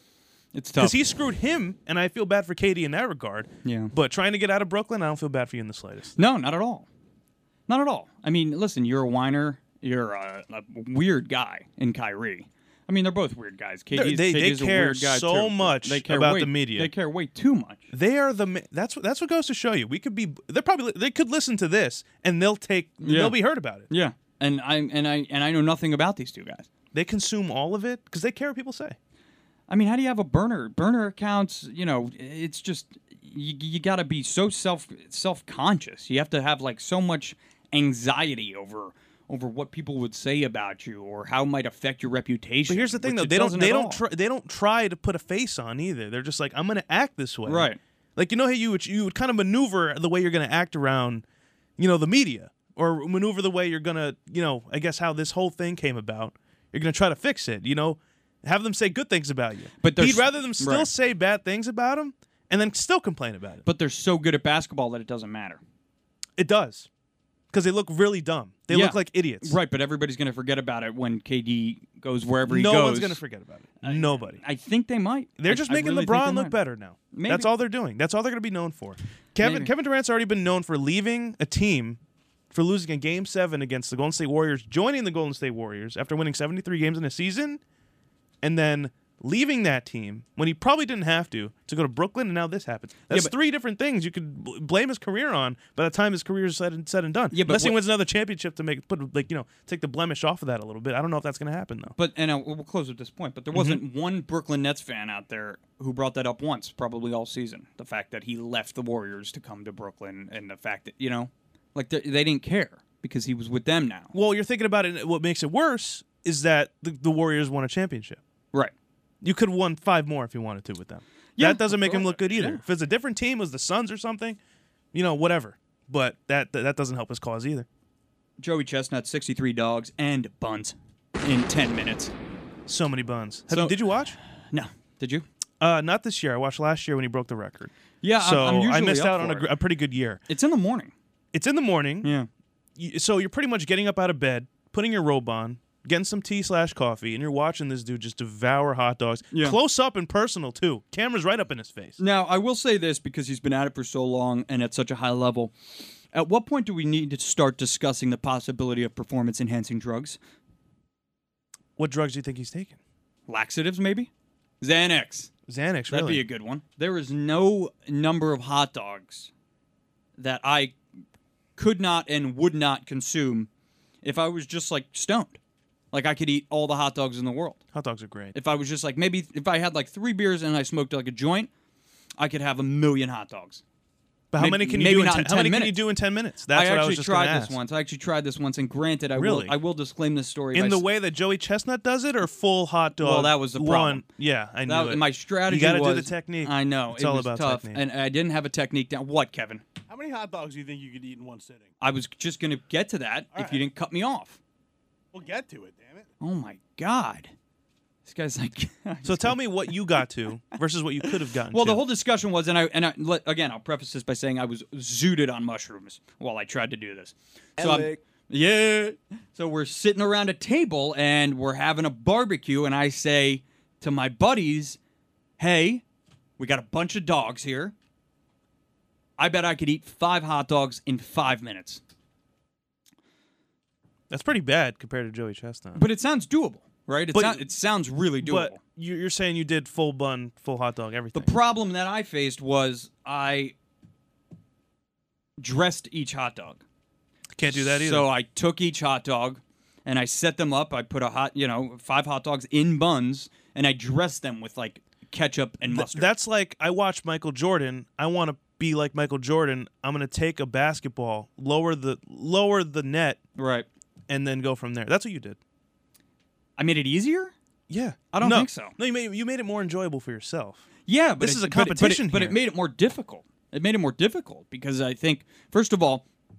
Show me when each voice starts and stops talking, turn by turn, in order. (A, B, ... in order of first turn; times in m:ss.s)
0:00.5-0:01.0 A
0:00.8-0:06.1 B
0:03.6-0:03.9 A
0:06.2-0:06.9 A
0:07.7-0:17.9 A
0:13.9-0:16.9 B
0:17.9-0:23.9 B
0:23.0-0:23.4 A
0:23.9-0:26.7 A
0:26.9-0:29.0 B
0:29.7-0:44.0 A
0:42.7-0:51.2 B
0:47.5-0:47.8 A
0:51.8-1:03.6 B
0:59.8-1:00.9 A
1:03.6-1:05.6 A
1:06.4-1:06.9 B
1:07.5-1:09.6 B
1:08.7-1:13.2 A
1:12.5-1:14.4 B
1:13.8-1:16.6 A
1:15.4-1:22.0 B
1:17.1-1:17.5 A
1:19.4-1:19.7 A
1:22.5-1:27.6 B
1:28.4-1:42.0 B
1:37.3-1:37.8 A
1:42.0-1:54.1 A
1:43.5-1:43.8 B
1:54.1-1:58.2 B
1:59.2-2:04.4 B
2:01.4-2:02.6 A
2:04.9-2:07.7 B
2:08.4-2:12.1 A
2:12.7-2:14.2 B
2:13.5-2:15.2 A
2:15.6-2:20.2 B
2:18.0-2:19.5 A
2:20.3-2:20.9 A
2:21.3-2:22.1 B
2:22.0-2:22.3 A
2:22.8-2:32.0 B
2:29.3-2:29.6 A
2:32.0-2:35.6 A
2:36.1-2:40.2 A
2:41.8-2:42.8 B
2:43.3-2:44.1 A
2:44.6-2:45.3 A
2:45.5-2:46.2 B
2:45.9-2:49.3 A
2:50.2-2:50.8 A
2:51.6-2:53.5 A
2:54.0-2:55.4 A
2:55.9-2:57.6 A
2:57.7-2:58.4 B
2:58.3-3:01.5 A
3:02.2-3:03.6 A
3:04.3-3:07.6 B
3:04.4-3:05.8 A
3:06.5-3:10.8 A
3:09.2-3:09.6 B
3:10.5-3:17.8 B
3:13.0-3:14.0 A
3:14.6-3:19.6 A
3:19.9-3:21.7 C
3:21.8-3:24.4 A
3:23.4-3:23.6 C
3:25.1-3:26.1 C
3:26.2-3:27.3 A
3:28.0-3:30.0 A
3:29.0-3:31.8 B
3:31.1-3:44.8 A
3:45.4-3:45.8 A
3:46.4-3:47.7 A
3:49.2-3:51.8 A
3:54.1-3:55.8 B
3:55.8-3:58.6 A
3:57.1-3:57.5 B
3:58.2-4:01.3 B
4:01.1-4:03.5 A
4:05.4-4:06.6 A
4:07.4-4:08.1 B
4:07.4-4:16.1 A
4:15.6-4:23.2 B
4:23.4-4:23.7 A
4:24.1-4:25.4 B
4:26.6-4:27.3 A
4:27.7-4:30.7 B
4:28.1-4:28.8 A
4:30.9-4:36.0 A
4:31.2-4:32.4 B